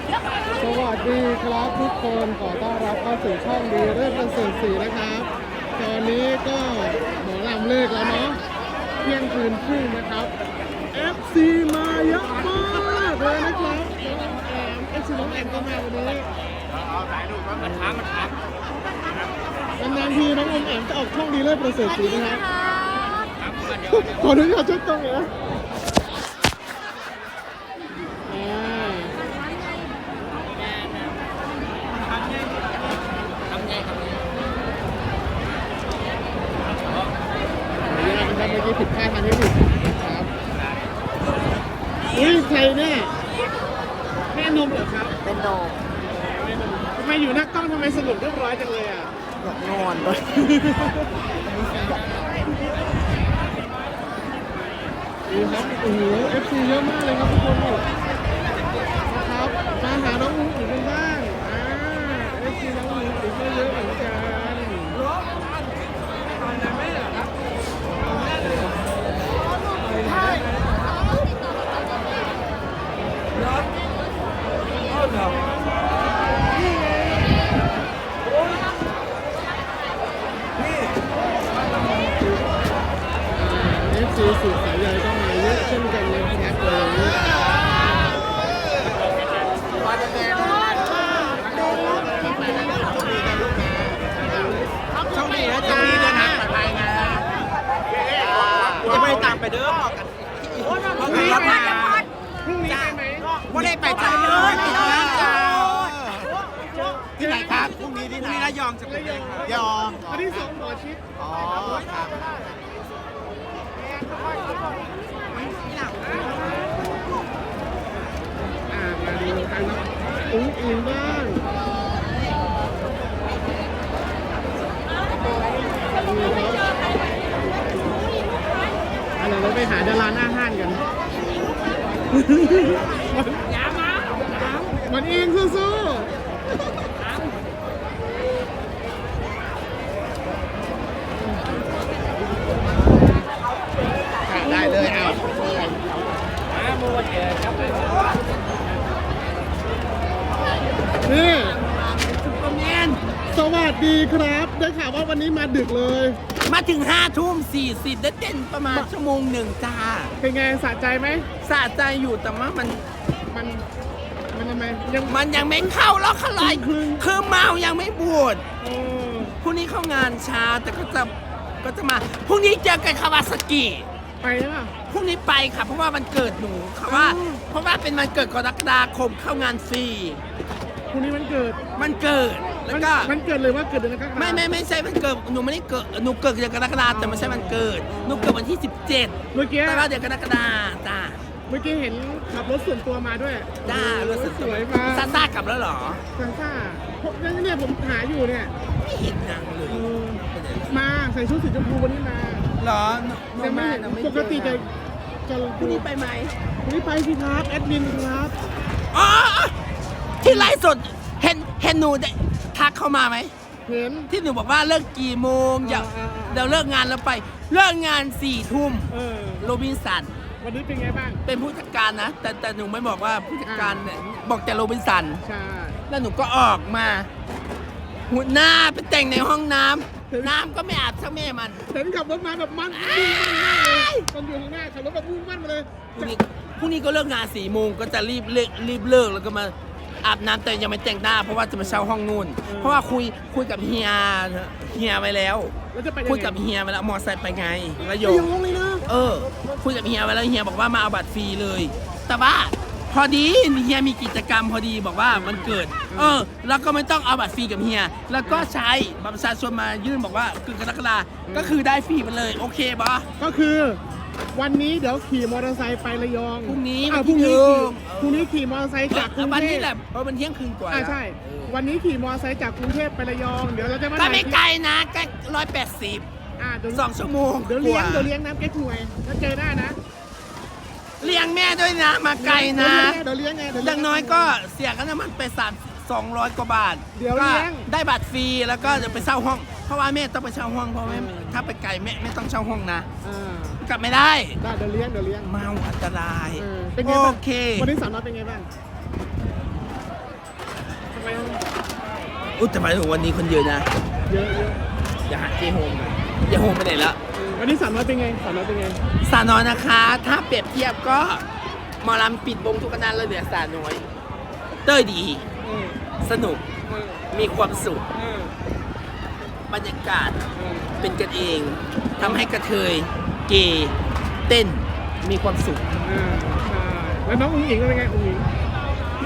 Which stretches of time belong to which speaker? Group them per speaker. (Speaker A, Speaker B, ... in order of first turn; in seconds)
Speaker A: 0.6-8.4, 9.0-10.3, 10.9-16.3, 17.6-18.2, 19.8-22.6, 23.7-25.3, 28.3-29.2, 37.9-40.3, 42.1-43.2, 44.3-45.2, 46.8-49.1, 50.2-51.1, 55.3-57.8, 59.1-65.0, 83.3-87.4, 91.6-93.3, 95.6-96.4, 98.9-99.3, 101.0-103.4, 104.0-104.3, 106.7-107.7, 108.8-112.1, 115.3-116.7, 118.7-121.5, 126.0-126.7, 129.2-130.8, 132.1-133.5, 134.3-136.2, 141.2-141.6, 144.3-145.7, 151.0-151.6, 153.3-156.2, 160.2-161.3, 163.3-163.7, 164.3-165.7, 166.4-167.1, 168.6-169.4, 174.2-174.7, 176.9-177.4, 180.9-181.7, 182.7-184.4, 186.9-188.4, 189.3-189.9, 191.5-195.3, 196.2-198.5, 199.7-202.5, 203.3-204.7, 205.3-205.8, 206.6-208.3, 210.2-210.5, 213.7-214.1, 215.6-216.7, 218.9-219.5, 220.4-221.2, 223.5-223.9, 225.2-225.8, 230.1-230.3, 231.7-236.2, 241.6-241.9, 242.4-242.8, 245.7-246.4, 248.3-248.7, 255.1-256.2, 261.3-261.6, 263.2-263.8, 264.3-269.7, 270.7-274.4, 276.4-276.9, 277.4-279.8, 282.2-284.4, 286.9-287.7, 288.6-289.1, 290.9-291.4, 293.0-293.6, 294.4-295.3, 296.4-298.5, 300.9-301.4, 304.1-304.6, 307.1-308.8, 315.4-315.8, 316.7-317.1, 317.9-318.3, 320.3-320.8, 325.8-328.3
Speaker B: 42.1-42.4, 95.1-97.2, 98.9-99.4, 100.7-102.1, 102.7-103.0, 103.5-106.0, 107.3-108.7, 133.7-134.4, 144.4-145.3, 147.6-148.0, 151.6-153.1, 156.4-160.1, 161.4-162.9, 165.1-168.4, 169.4-173.9, 174.9-180.2, 181.8-183.1, 184.2-191.2, 193.6-196.0, 198.8-200.7, 202.6-204.7, 205.6-206.3, 208.9-209.6, 210.2-213.3, 214.1-220.1, 221.2-225.2, 225.9-227.1, 228.1-231.7, 232.7-234.1, 236.0-245.5, 246.1-263.1, 266.5-268.3, 268.9-271.6, 274.0-276.1, 276.7-278.1, 281.0-283.0, 283.5-292.9, 293.6-294.4, 295.2-297.7, 302.4-303.7, 305.1-307.0, 309.0-311.2, 311.8-313.9, 314.6-315.3, 316.0-316.5, 317.1-317.9, 319.5-320.2, 320.8-323.8, 324.3-325.7
Speaker C: 45.2-45.8, 49.4-50.2, 90.0-94.4, 95.1-97.4, 98.1-100.0, 100.5-101.5, 103.5-106.3, 107.2-110.1, 111.2-112.1, 248.4-248.7